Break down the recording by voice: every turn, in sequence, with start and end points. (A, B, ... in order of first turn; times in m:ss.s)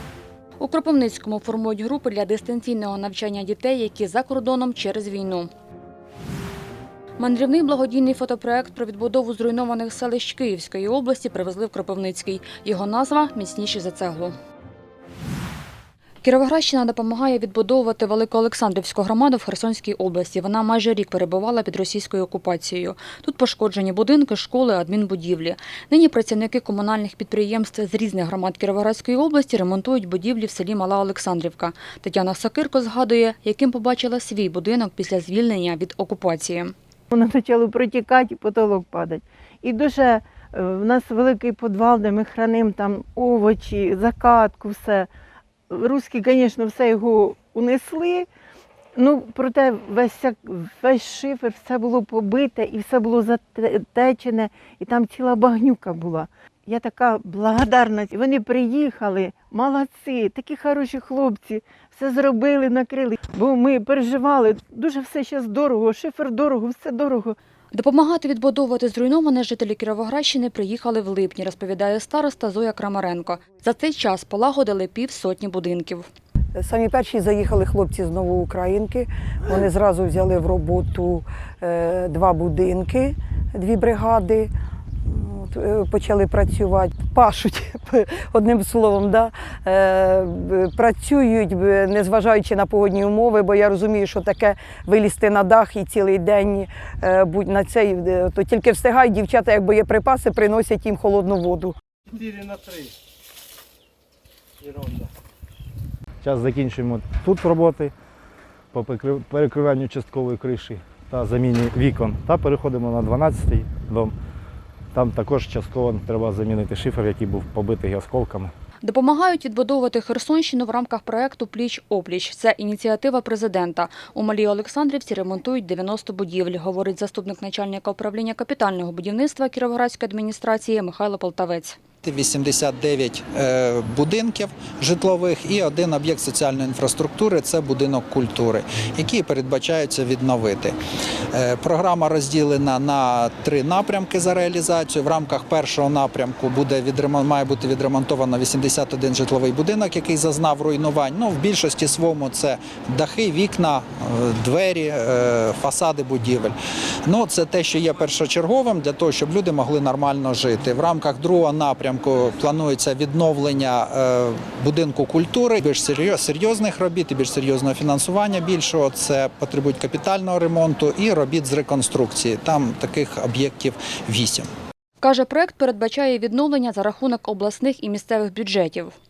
0:00.6-0:05.5 A
0:07.2-0:14.4 A
0:16.2-0:36.7 A
0:37.1-0:45.1 B
0:45.7-0:48.3 B
0:49.0-1:07.4 B
1:07.7-1:16.1 A
1:16.6-1:24.5 C
1:25.1-1:41.8 C
1:46.2-1:47.9 D
1:48.7-1:54.1 D
1:55.0-1:58.5 D
1:58.8-2:11.8 A
2:12.0-2:20.8 E
2:21.3-2:36.6 E
2:37.1-2:54.5 E
2:55.0-2:58.9 A